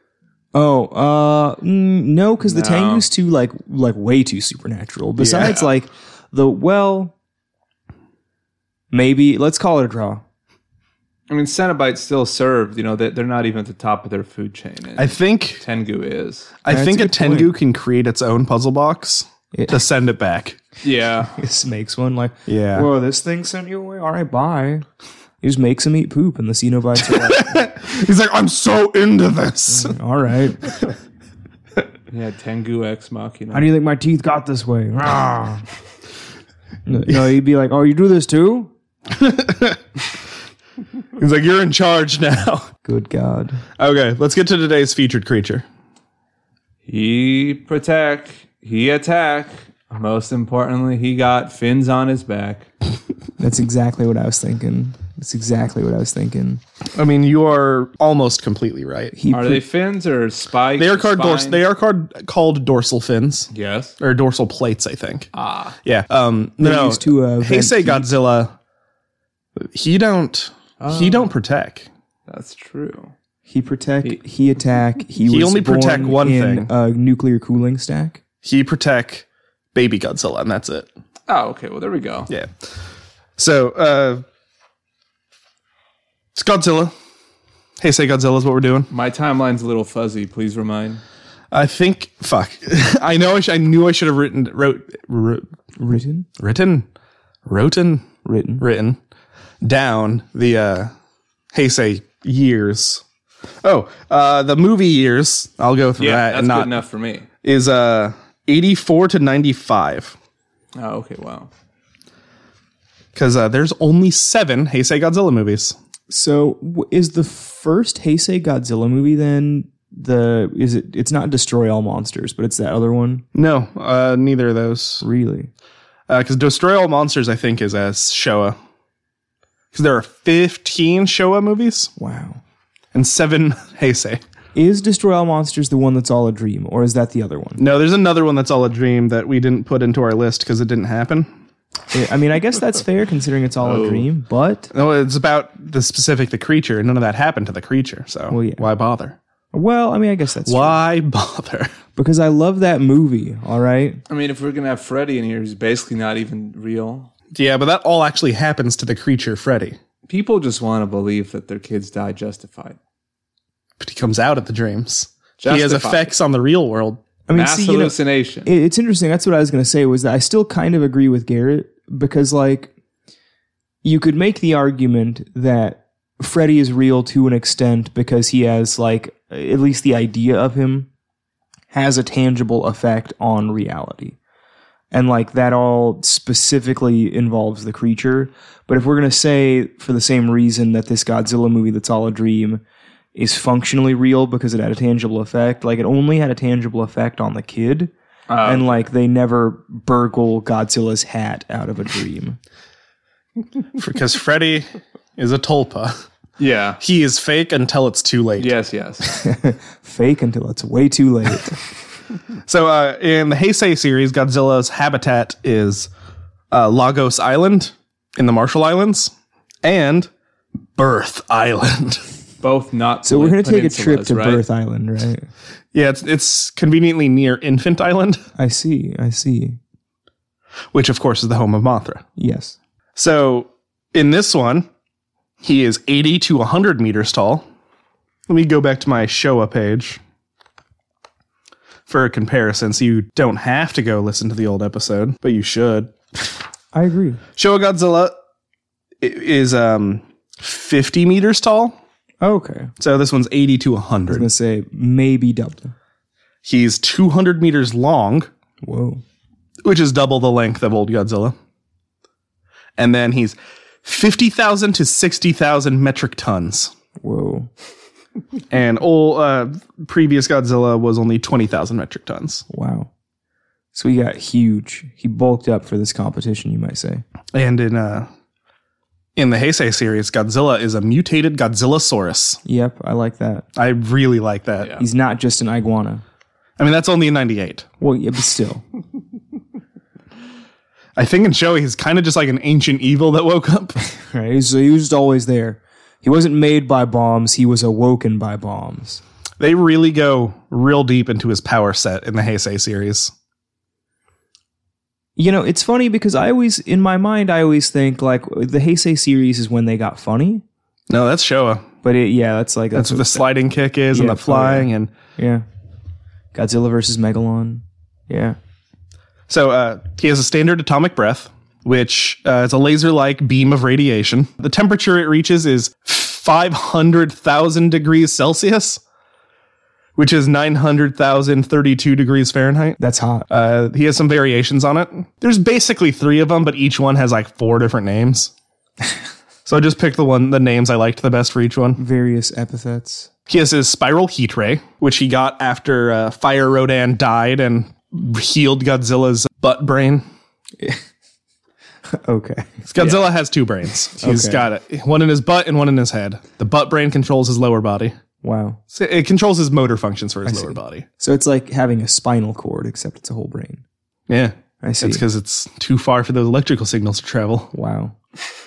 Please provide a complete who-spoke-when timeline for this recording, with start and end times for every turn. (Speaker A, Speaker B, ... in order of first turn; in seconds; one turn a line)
Speaker A: 0.5-7.1
Speaker B: 2.5-3.1
Speaker C: 5.2-5.6
Speaker A: 8.9-10.2
Speaker B: 11.3-16.6
Speaker C: 15.0-15.6
Speaker C: 16.6-20.6
Speaker A: 16.7-17.5
Speaker A: 19.5-19.8
Speaker B: 20.8-21.4
Speaker A: 21.4-24.8
Speaker C: 22.5-22.9
Speaker A: 25.4-27.5
Speaker C: 27.0-29.9
Speaker A: 29.7-30.7
Speaker B: 32.1-33.7
Speaker A: 33.5-35.6
Speaker A: 36.9-38.7
Speaker C: 39.1-39.8
Speaker C: 41.2-42.7
Speaker A: 42.9-43.6
Speaker C: 43.8-45.6
Speaker B: 46.9-52.7
Speaker A: 53.4-56.6
Speaker C: 57.0-59.1
Speaker A: 59.1-59.6
Speaker B: 59.3-61.6
Speaker C: 60.8-65.3
Speaker B: 63.5-63.9
Speaker B: 65.3-65.8
Speaker C: 65.8-68.5
Speaker A: 66.6-68.1
Speaker C: 69.6-71.9
Speaker B: 70.8-71.3
Speaker B: 72.3-73.1
Speaker A: 73.5-78.2
Speaker C: 75.2-76.7
Speaker C: 78.4-80.9
Speaker B: 81.3-82.3
Speaker C: 82.3-82.6
Speaker C: 83.4-84.2
Speaker C: 86.3-86.9
Speaker C: 87.8-88.9
Speaker B: 88.9-91.0
Speaker C: 91.5-95.5
Speaker A: 95.8-96.3
Speaker C: 96.4-96.9
Speaker C: 97.5-99.0
Speaker A: 98.2-98.6
Speaker C: 99.6-100.9
Speaker C: 101.5-103.0
Speaker C: 103.6-106.8
Speaker B: 106.0-107.3
Speaker C: 107.4-110.2
Speaker B: 110.8-111.5
Speaker C: 113.2-115.8
Speaker A: 116.1-123.2
Speaker C: 123.3-125.0
Speaker A: 125.0-125.5
Speaker C: 126.1-128.6
Speaker C: 129.7-131.9
Speaker A: 132.0-132.4
Speaker C: 132.9-134.2
Speaker A: 134.6-137.6
Speaker C: 137.6-141.3
Speaker A: 141.9-144.7
Speaker B: 143.6-144.1
Speaker C: 144.7-149.2
Speaker A: 148.3-148.6
Speaker A: 149.5-150.8
Speaker C: 150.5-151.7
Speaker A: 151.9-154.0
Speaker B: 154.1-157.1
Speaker C: 157.3-159.8
Speaker B: 160.1-162.8
Speaker C: 163.8-167.0
Speaker B: 165.4-166.1
Speaker A: 167.3-172.7
Speaker B: 167.3-168.5
Speaker A: 173.8-180.9
Speaker A: 181.7-184.2
Speaker A: 184.9-192.6
Speaker A: 193.2-197.9
Speaker B: 198.3-198.9
Speaker A: 198.4-202.4
Speaker C: 203.8-206.0
Speaker B: 206.4-206.8
Speaker C: 206.8-208.5
Speaker B: 208.4-209.1
Speaker A: 209.1-211.6
Speaker C: 212.4-215.9
Speaker C: 216.5-219.1
Speaker C: 219.6-220.1
Speaker C: 220.8-222.0
Speaker B: 222.4-224.4
Speaker A: 223.0-225.3
Speaker C: 225.7-228.2
Speaker A: 228.4-229.6
Speaker C: 230.7-232.0
Speaker A: 232.2-232.6
Speaker C: 233.0-234.7
Speaker C: 235.4-237.4
Speaker C: 238.3-240.0
Speaker C: 241.9-245.9
Speaker A: 246.7-247.2
Speaker C: 247.4-248.1
Speaker C: 249.0-251.8
Speaker A: 252.2-252.7
Speaker C: 252.8-254.3
Speaker A: 254.1-255.7
Speaker C: 256.4-258.3
Speaker A: 258.6-259.0
Speaker C: 259.6-261.4
Speaker C: 262.8-266.7
Speaker A: 267.0-267.5
Speaker C: 268.5-272.4
Speaker A: 272.5-272.9
Speaker A: 273.7-277.0
Speaker C: 277.3-278.1
Speaker C: 279.2-282.4
Speaker A: 282.4-283.5
Speaker C: 283.6-284.8
Speaker A: 284.8-286.0
Speaker C: 286.6-287.6
Speaker A: 287.8-288.6
Speaker C: 291.0-293.8
Speaker A: 294.0-299.0
Speaker C: 299.4-303.1
Speaker A: 305.2-310.4
Speaker C: 310.9-311.7
Speaker A: 311.8-313.2
Speaker C: 312.7-314.9
Speaker A: 313.9-315.4
Speaker A: 316.3-318.4
Speaker C: 319.3-328.8
Speaker C: 330.0-338.3
Speaker A: 332.8-333.3
Speaker C: 339.5-341.8
Speaker A: 341.8-343.1
Speaker C: 343.3-350.1
Speaker A: 352.0-352.6
Speaker C: 352.7-357.9
Speaker A: 354.0-354.4
Speaker A: 358.2-358.6
Speaker C: 358.7-360.9
Speaker A: 360.3-363.6
Speaker C: 364.1-367.5
Speaker A: 364.6-365.0
Speaker A: 367.5-368.0